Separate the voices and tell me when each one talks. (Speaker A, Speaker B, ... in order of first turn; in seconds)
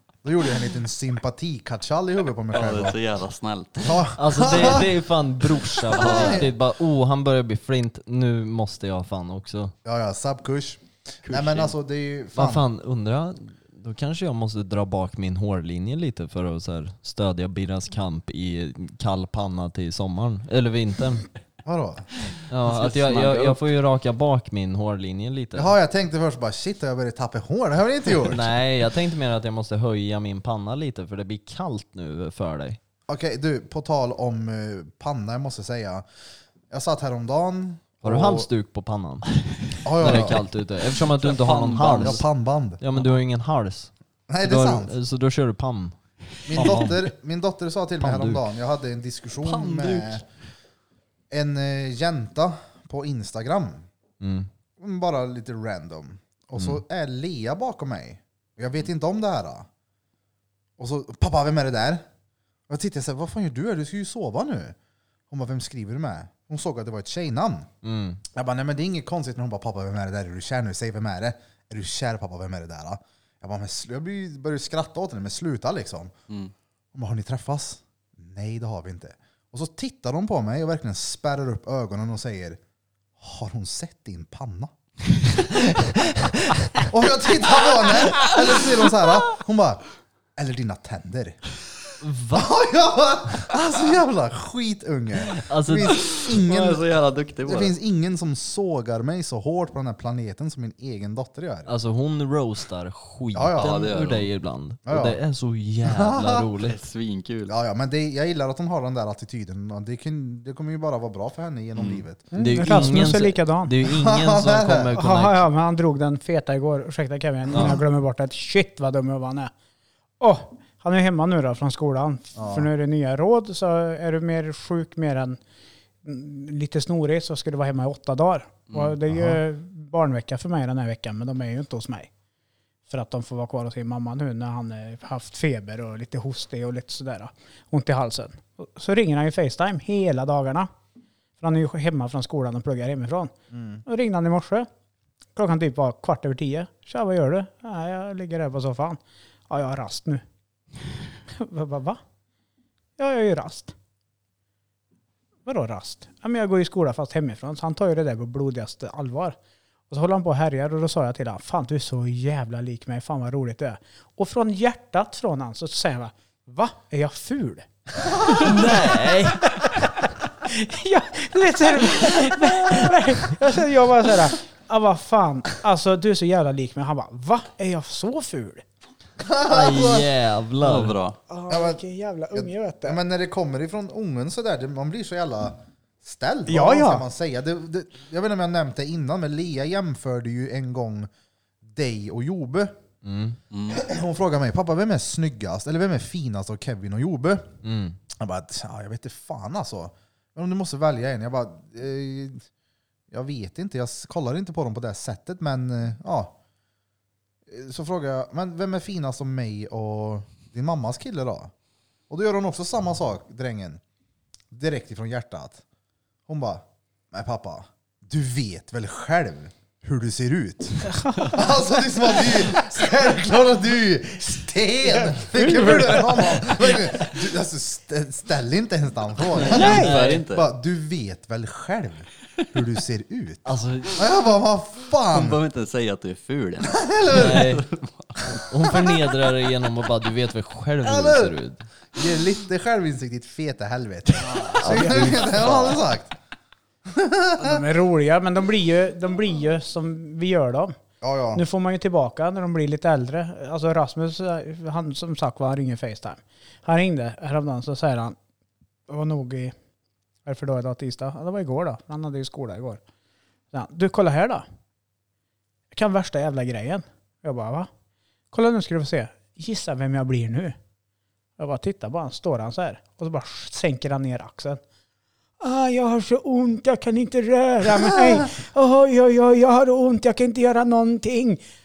Speaker A: 0.2-3.0, 3.8-4.9, 5.9-6.5, 9.8-12.7, 21.6-22.1, 25.6-28.5, 33.1-36.0, 36.7-38.5, 39.8-40.5, 41.8-42.8, 44.3-45.0, 46.5-50.2, 51.3-53.9, 54.8-59.7, 60.8-62.0, 62.7-64.8, 65.3-67.7, 68.3-76.1, 76.9-82.6, 83.2-84.7, 86.8-89.8, 90.4-91.4, 92.3-96.9, 97.5-101.7, 103.3-103.9, 104.9-105.2, 105.8-106.5, 107.5-112.3, 113.8-115.0, 122.3-122.7, 129.1-129.4, 143.5-143.8, 179.2-180.1, 181.5-181.8, 182.3-191.1, 191.7-192.8, 193.7-197.5, 198.2-202.5, 203.1-206.4, 207.5-211.5, 212.1-213.8, 214.5-215.6, 216.3-235.4, 236.6-237.5, 240.8-241.4, 241.9-246.1, 246.9-247.6, 251.0-251.4
Speaker B: 2.5-4.8, 5.9-6.5, 11.2-11.7, 22.6-23.6, 41.0-42.2, 49.4-50.2, 95.9-97.7, 103.6-104.3, 106.6-107.5, 111.8-112.0, 128.7-128.9, 180.6-181.2, 193.5-193.8, 229.5-230.5, 235.1-238.4
Speaker C: 4.2-9.7, 12.3-21.3, 22.5-25.8, 28.2-32.8, 38.0-39.3, 40.0-42.2, 42.8-47.1, 48.0-48.5, 54.2-54.5, 67.8-68.2, 92.0-92.5, 95.3-96.1, 101.7-106.8, 112.4-115.5, 117.5-117.8, 168.4-169.6, 179.5-181.0, 193.0-193.4, 197.6-198.0, 229.4-230.2, 233.4-234.0, 237.1-237.7, 238.4-241.6, 244.6-245.8
Speaker D: 112.3-113.7, 115.0-119.5, 120.2-125.4, 126.0-132.1, 132.9-140.7, 141.4-143.3, 143.8-144.7, 145.3-150.2, 151.3-152.0, 153.0-153.8, 155.5-159.4, 159.9-178.6, 181.3-183.0, 186.5-187.1, 220.9-221.3, 224.9-226.1, 229.5-230.0, 244.4-245.2, 247.4-250.8, 251.3-258.2, 258.9-259.6, 260.3-262.8, 263.5-264.5, 265.7-267.7, 268.3-270.6, 271.4-274.6, 275.4-281.4